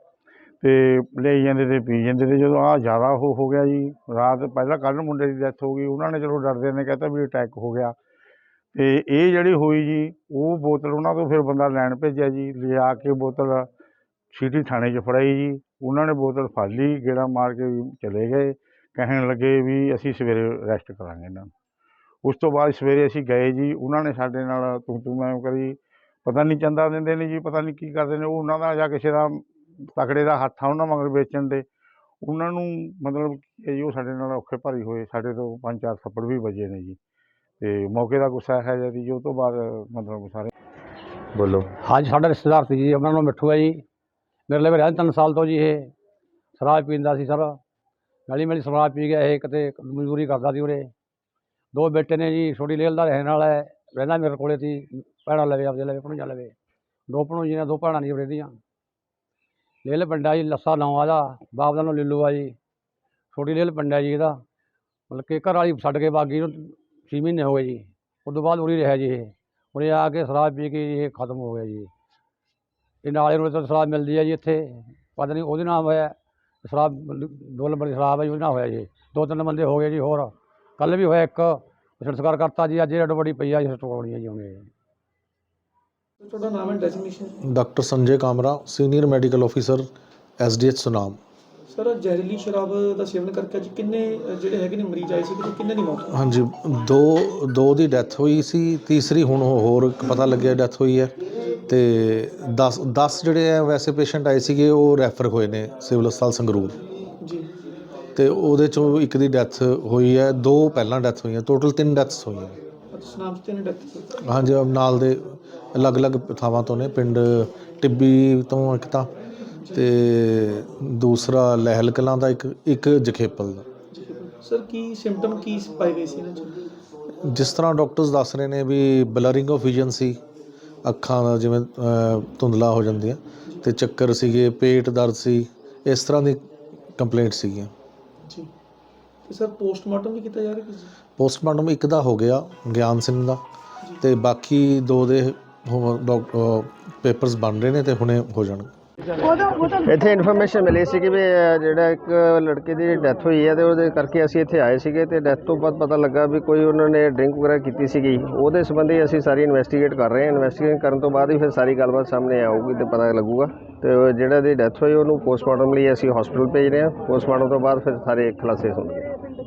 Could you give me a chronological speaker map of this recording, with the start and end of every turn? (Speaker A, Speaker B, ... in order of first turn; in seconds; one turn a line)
Speaker A: 0.6-7.9
Speaker A: 8.7-13.7
Speaker A: 14.3-21.5
Speaker A: 22.2-29.4
Speaker A: 29.9-31.6
Speaker A: 32.2-37.0
Speaker A: 37.6-40.5
Speaker B: 41.5-43.8
Speaker B: 44.5-45.9
Speaker B: 46.6-47.6
Speaker B: 48.3-50.9
Speaker B: 51.7-56.5
Speaker B: 57.1-58.6
Speaker B: 59.8-62.5
Speaker B: 63.3-64.4
Speaker B: 65.1-71.9
Speaker B: 73.0-84.7
Speaker C: 86.2-87.3
Speaker D: 87.4-89.9
Speaker D: 90.4-91.2
Speaker C: 91.7-96.0
Speaker D: 96.1-101.1
Speaker D: 101.7-106.8
Speaker D: 108.2-112.6
Speaker C: 112.9-114.1
Speaker D: 114.2-119.1
Speaker D: 119.7-123.7
Speaker C: 123.9-126.7
Speaker D: 127.2-130.2
Speaker D: 130.8-137.7
Speaker C: 139.2-140.9
Speaker D: 141.2-143.4
Speaker D: 144.0-148.7
Speaker E: 149.2-169.1